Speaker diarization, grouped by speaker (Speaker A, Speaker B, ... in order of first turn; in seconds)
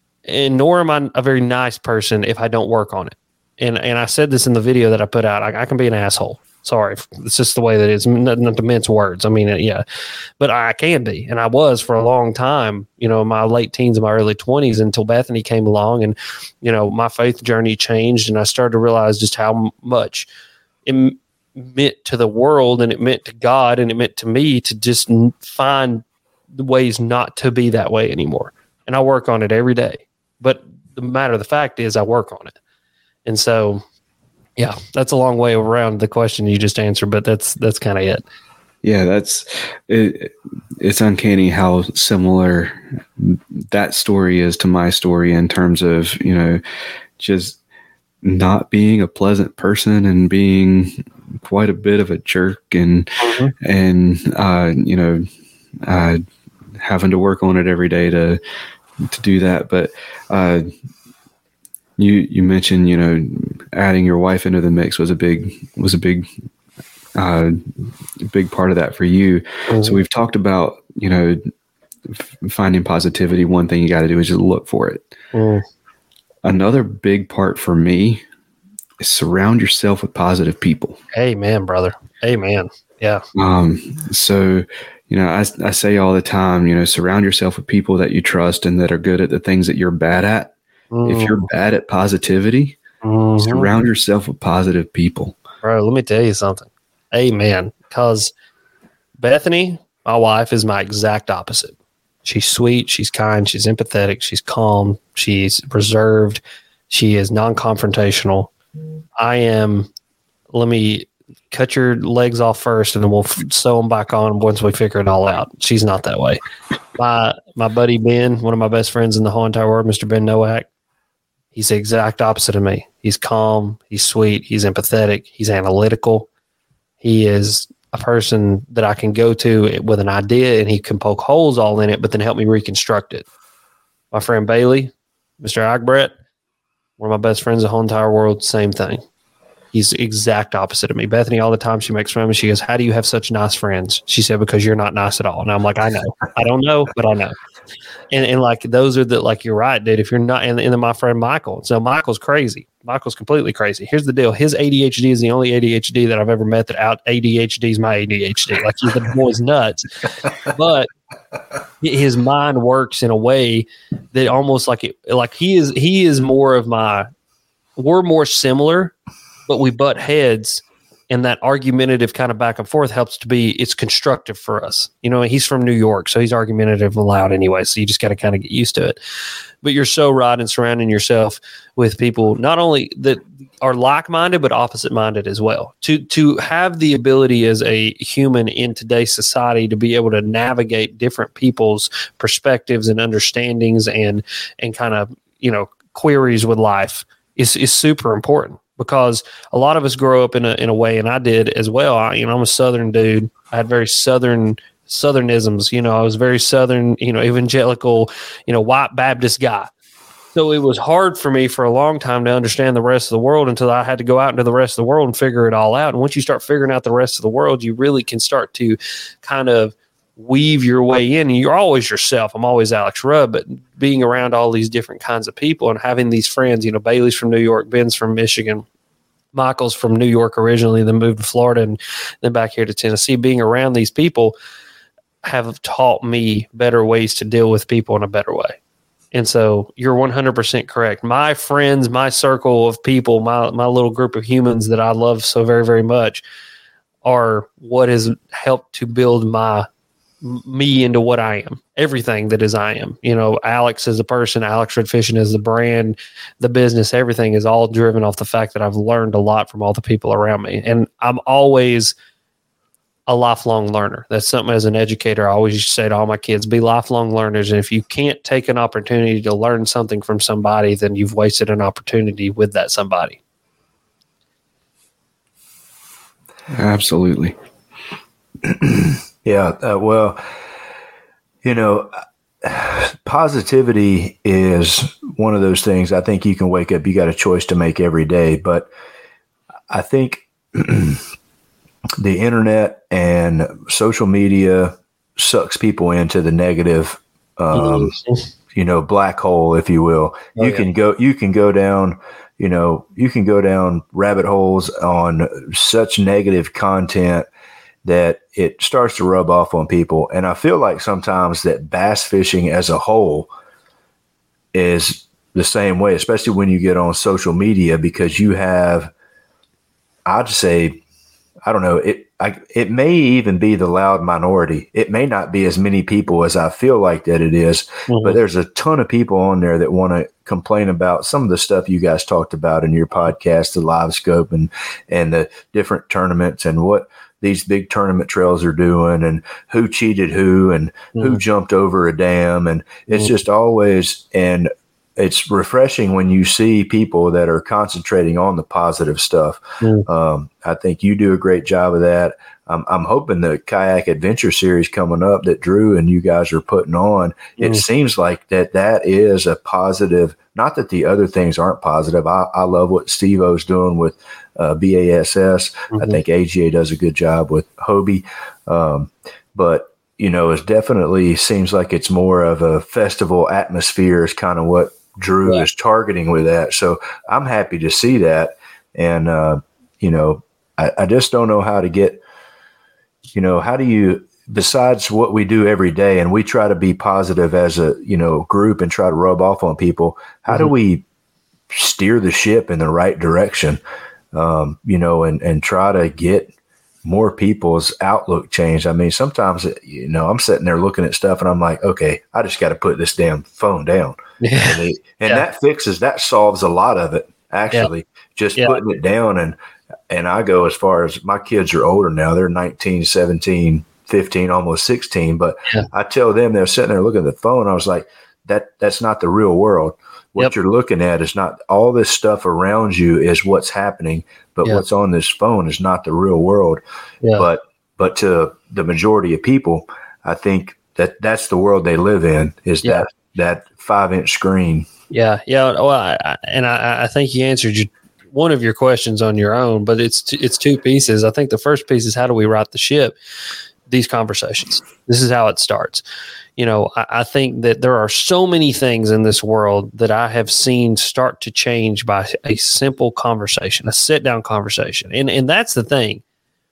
Speaker A: 0.3-9.8, 10.4-20.3, 20.9-26.0, 26.5-32.5, 33.2-33.8, 34.6-38.2, 53.2-53.5, 69.7-70.0, 75.3-75.6, 81.1-83.2, 90.9-91.5, 93.0-93.7, 95.6-98.3, 99.2-108.5, 109.2-109.9, 110.5-116.4, 117.0-120.7, 121.5-126.3, 127.0-133.2, 134.1-136.1, 137.0-139.0, 139.7-147.3, 148.1-160.9, 161.8-167.1, 167.8-168.9, 169.5-179.0, 179.6-209.7, 210.3-228.6, 229.3-234.3, 235.2-238.6, 239.1-246.2, 247.0-249.7, 250.2-261.9, 263.1-273.2, 297.5-298.3, 300.4-300.7, 327.9-328.2, 340.9-341.2, 349.6-349.9, 357.4-357.6, 365.7-366.0, 404.2-405.2, 408.4-408.6, 434.9-442.9, 443.7-445.8, 446.4-456.0
Speaker B: 38.8-46.6, 47.2-47.6, 48.2-55.2, 55.8-56.2, 56.8-58.4, 59.0-60.7, 62.0-66.3, 67.2-67.6, 68.2-71.5, 72.1-75.1, 76.4-78.2, 79.0-81.0, 83.3-90.5, 91.0-92.8, 93.4-95.3, 276.5-277.4
Speaker C: 278.5-280.2, 281.4-281.9, 282.4-288.7, 289.7-291.0, 292.0-297.9, 298.5-307.2, 307.8-313.3, 314.5-318.9, 320.0-320.8, 321.4-382.0, 383.1-390.8, 391.5-393.6, 394.1-396.3, 396.8-409.4, 409.9-426.6, 427.2-434.7